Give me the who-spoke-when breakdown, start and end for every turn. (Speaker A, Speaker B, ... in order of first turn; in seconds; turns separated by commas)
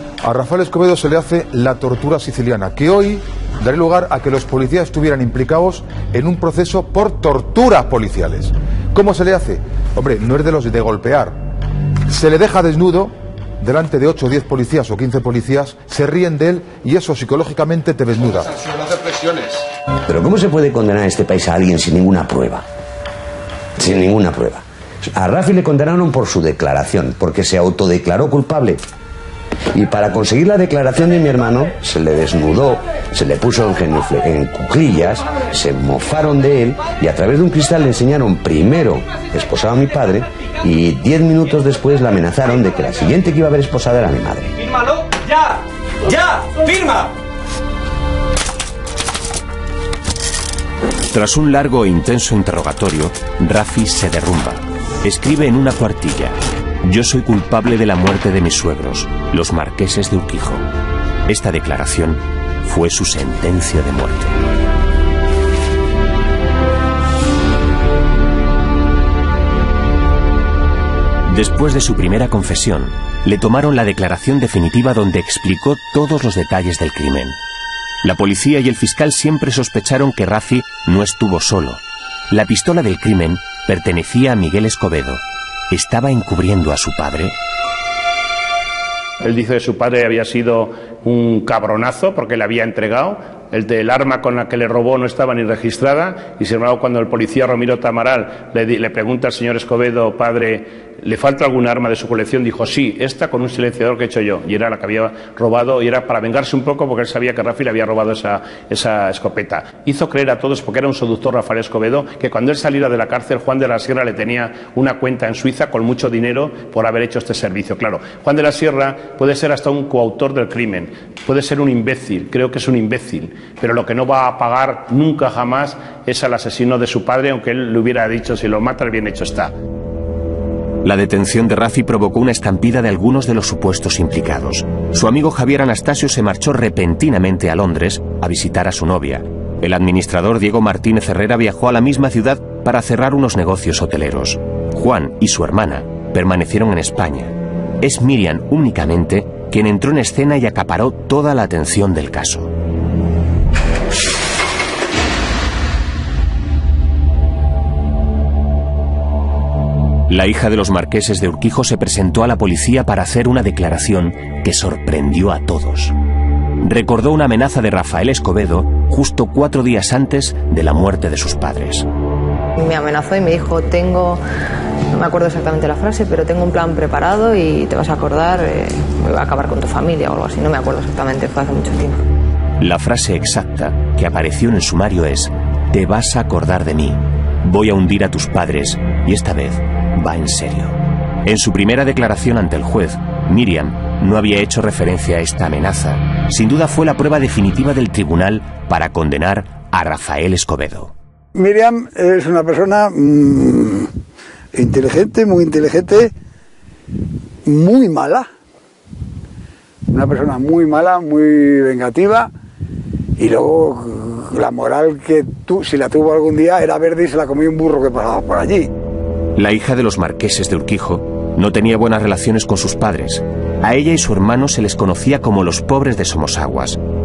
Speaker A: 0.2-11.4, Speaker A: 12.1-18.6, Speaker B: 20.1-22.6, Speaker B: 23.8-28.8, Speaker B: 29.7-44.5, Speaker C: 51.1-60.6, Speaker C: 61.3-64.4, Speaker C: 71.2-77.4, Speaker C: 78.0-87.3, Speaker D: 89.2-129.5, Speaker C: 130.8-152.5, Speaker C: 160.1-165.9, Speaker C: 166.6-171.9, Speaker E: 172.6-174.2, Speaker E: 174.9-182.0, Speaker C: 182.6-200.9, Speaker F: 201.3-203.9, Speaker F: 204.5-206.1, Speaker F: 207.4-208.3, Speaker F: 209.9-212.3, Speaker F: 213.2-218.7, Speaker C: 219.3-226.8